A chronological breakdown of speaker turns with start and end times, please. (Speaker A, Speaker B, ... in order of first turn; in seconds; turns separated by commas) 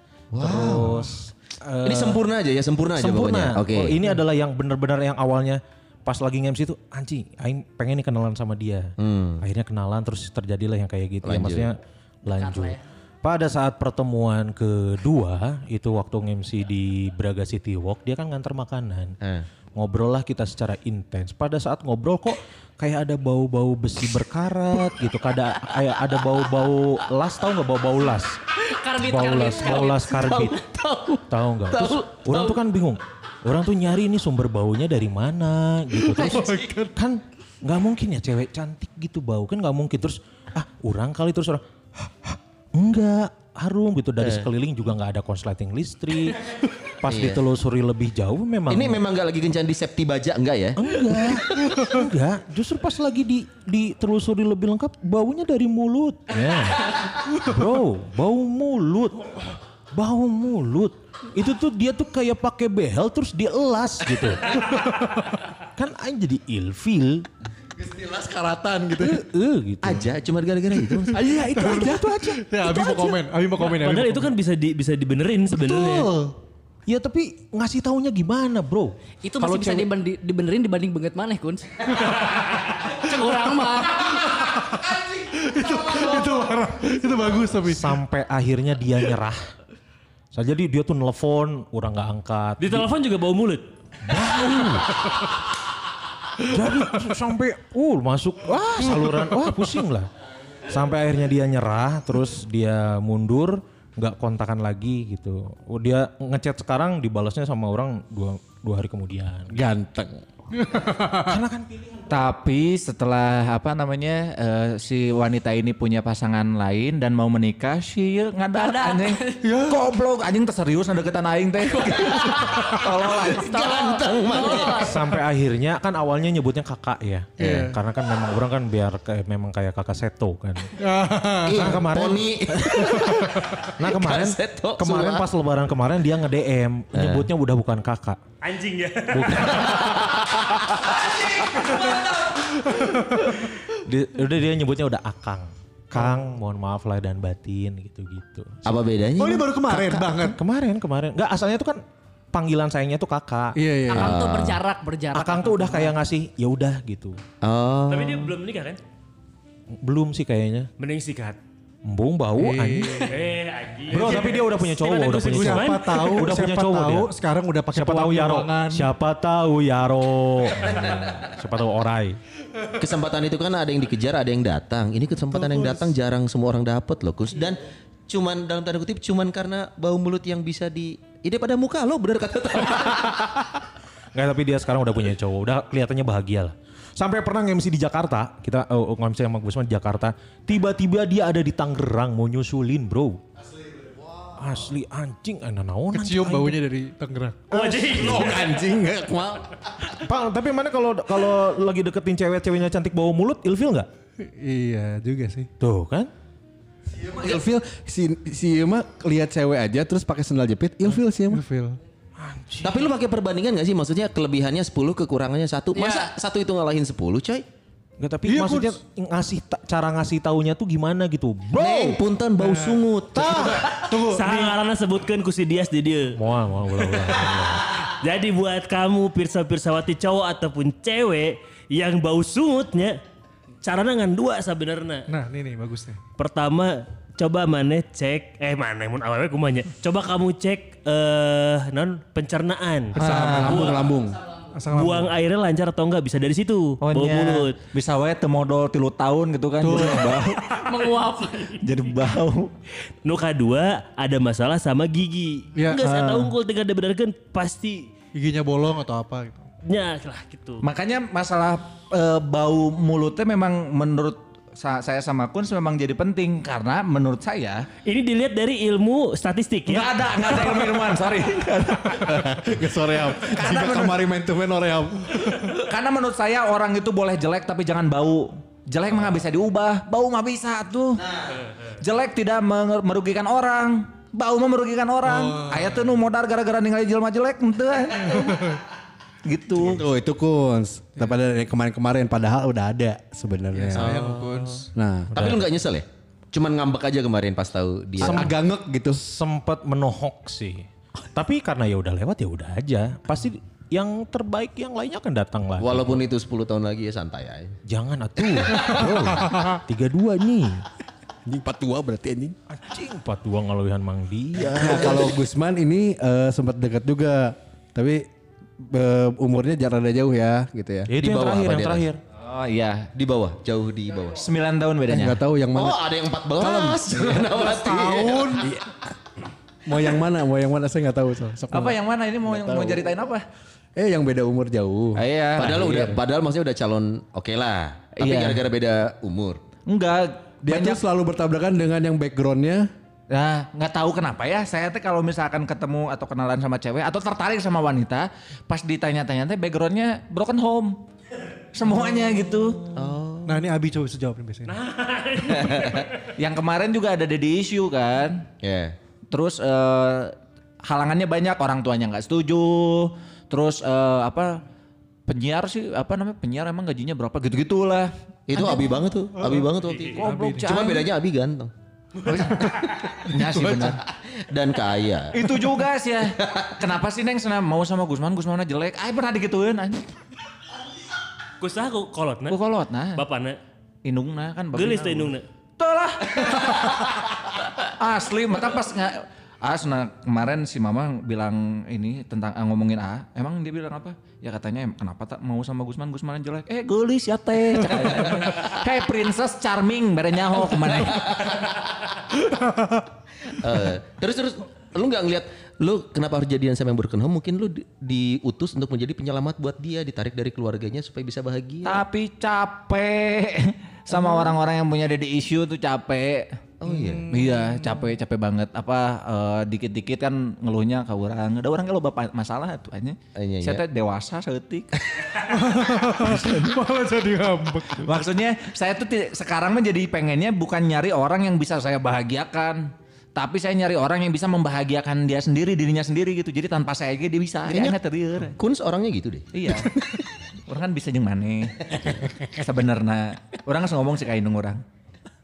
Speaker A: 0.3-1.0, Speaker B: 0.4-2.2, Speaker A: 1.8-4.0, Speaker B: 2.9-19.2, Speaker A: 9.0-9.4, Speaker A: 11.2-11.7, Speaker C: 12.3-12.8, Speaker B: 19.7-28.3, Speaker C: 28.6-31.2, Speaker B: 29.0-30.6, Speaker B: 31.3-46.4, Speaker A: 31.7-32.3, Speaker D: 36.1-36.9, Speaker A: 44.2-44.5, Speaker B: 47.0-49.0, Speaker A: 47.1-47.4, Speaker A: 48.7-51.5, Speaker B: 50.8-64.6, Speaker D: 64.6-65.1, Speaker B: 65.8-67.2, Speaker E: 67.8-69.2, Speaker B: 69.0-70.0, Speaker A: 69.8-71.2, Speaker D: 71.1-74.3, Speaker B: 71.5-73.1, Speaker F: 73.6-76.1, Speaker B: 76.9-78.9, Speaker C: 79.2-84.2, Speaker D: 79.4-79.9, Speaker D: 82.0-83.3, Speaker D: 84.1-88.0, Speaker B: 87.6-89.4, Speaker B: 90.3-92.9, Speaker F: 92.6-93.6, Speaker B: 94.0-94.9, Speaker B: 96.5-100.1, Speaker D: 98.9-99.7, Speaker B: 100.7-109.5, Speaker E: 109.5-110.2, Speaker D: 110.6-111.3, Speaker B: 111.2-112.1, Speaker G: 112.1-123.5, Speaker C: 118.5-119.4, Speaker D: 119.5-119.8, Speaker A: 122.5-124.9, Speaker C: 123.2-125.0, Speaker B: 124.8-130.7, Speaker A: 127.4-127.7, Speaker D: 127.4-127.8, Speaker D: 130.8-131.9, Speaker A: 131.4-135.3, Speaker B: 131.6-132.2, Speaker B: 133.6-138.2, Speaker A: 136.9-137.3, Speaker F: 138.4-140.2, Speaker B: 139.1-140.1, Speaker D: 142.4-143.2, Speaker B: 143.7-148.6, Speaker D: 145.9-146.2, Speaker A: 148.6-149.5, Speaker D: 149.2-150.4, Speaker B: 149.7-151.8, Speaker B: 152.3-153.6, Speaker D: 153.6-154.1, Speaker C: 153.9-155.9, Speaker A: 154.0-154.6, Speaker B: 155.1-157.2, Speaker A: 157.4-158.3, Speaker F: 157.9-158.8, Speaker B: 159.8-160.7, Speaker F: 160.8-161.4, Speaker B: 161.8-163.1, Speaker D: 162.4-163.1, Speaker F: 163.1-166.3, Speaker B: 163.9-167.1, Speaker D: 164.0-164.3, Speaker D: 165.2-168.9, Speaker B: 167.7-172.2, Speaker A: 170.7-171.3, Speaker A: 172.8-183.3, Speaker D: 175.5-175.9, Speaker B: 184.1-193.2, Speaker B: 194.3-196.6, Speaker D: 195.9-197.5, Speaker F: 197.5-198.5, Speaker E: 197.5-199.7, Speaker B: 199.9-203.9, Speaker D: 204.2-205.5, Speaker B: 205.6-206.1, Speaker E: 207.0-211.4, Speaker D: 211.3-211.8, Speaker B: 212.2-212.9, Speaker A: 212.6-217.4, Speaker C: 215.7-216.1, Speaker B: 218.0-222.0, Speaker D: 218.2-218.8, Speaker A: 221.5-223.6, Speaker D: 222.4-224.6, Speaker B: 223.1-223.6, Speaker F: 223.6-226.1, Speaker B: 226.1-227.6, Speaker F: 226.7-233.0, Speaker F: 233.6-235.1, Speaker D: 235.1-236.0, Speaker F: 236.2-243.0, Speaker E: 242.9-244.2, Speaker G: 242.9-243.8, Speaker D: 244.5-245.1, Speaker F: 244.7-247.6, Speaker G: 246.8-250.4, Speaker D: 249.6-250.3, Speaker C: 250.5-251.6, Speaker G: 251.6-252.5, Speaker F: 253.0-257.9, Speaker D: 255.6-255.8, Speaker G: 255.8-256.3, Speaker D: 258.1-259.4, Speaker F: 259.6-260.6, Speaker G: 260.6-267.7, Speaker F: 267.8-270.3, Speaker G: 269.7-272.3, Speaker E: 271.9-275.3, Speaker G: 273.3-274.0, Speaker G: 275.4-288.6, Speaker D: 285.1-285.7, Speaker G: 289.2-289.8, Speaker E: 289.6-294.2, Speaker D: 293.5-294.7, Speaker E: 294.7-295.1, Speaker B: 295.1-295.5, Speaker A: 295.1-298.3, Speaker B: 298.0-298.4, Speaker E: 298.0-299.0, Speaker B: 298.9-306.0, Speaker A: 305.6-307.5, Speaker B: 307.7-310.6, Speaker E: 311.2-312.4, Speaker B: 312.5-315.1, Speaker E: 314.4-318.0, Speaker E: 318.7-320.9, Speaker B: 320.9-322.0, Speaker A: 321.0-321.9, Speaker G: 322.1-322.9, Speaker A: 322.9-324.2, Speaker G: 324.1-325.2, Speaker E: 324.9-325.8, Speaker A: 325.5-328.3, Speaker E: 326.4-327.0, Speaker D: 327.0-328.6, Speaker E: 329.6-332.9, Speaker G: 331.5-333.2, Speaker E: 333.8-336.0, Speaker G: 334.9-335.6, Speaker A: 335.4-339.4, Speaker G: 338.0-338.4, Speaker G: 339.7-340.8, Speaker E: 340.4-342.6, Speaker G: 343.1-350.8, Speaker G: 351.5-352.6, Speaker A: 352.7-353.4, Speaker D: 353.2-354.6, Speaker F: 354.5-355.9, Speaker A: 355.3-355.8, Speaker G: 356.1-358.3, Speaker A: 358.4-358.7, Speaker G: 359.1-364.4, Speaker G: 365.1-368.6, Speaker A: 368.3-371.5, Speaker D: 369.2-370.7, Speaker F: 369.7-370.0, Speaker G: 370.0-370.9, Speaker G: 372.0-373.8, Speaker A: 373.9-375.2, Speaker G: 375.1-379.9, Speaker A: 376.2-376.5, Speaker F: 381.4-382.4, Speaker G: 382.3-383.0, Speaker F: 382.9-383.4, Speaker G: 383.8-387.0, Speaker F: 384.5-385.2, Speaker G: 387.6-401.4, Speaker A: 403.3-411.8, Speaker G: 411.6-416.4, Speaker A: 416.6-417.1, Speaker D: 416.7-417.7, Speaker G: 417.1-425.2, Speaker A: 423.1-423.6, Speaker D: 425.3-427.9, Speaker G: 426.0-426.6, Speaker G: 427.7-438.4, Speaker A: 437.5-437.8, Speaker A: 438.4-439.3, Speaker G: 439.3-439.8, Speaker G: 440.5-444.6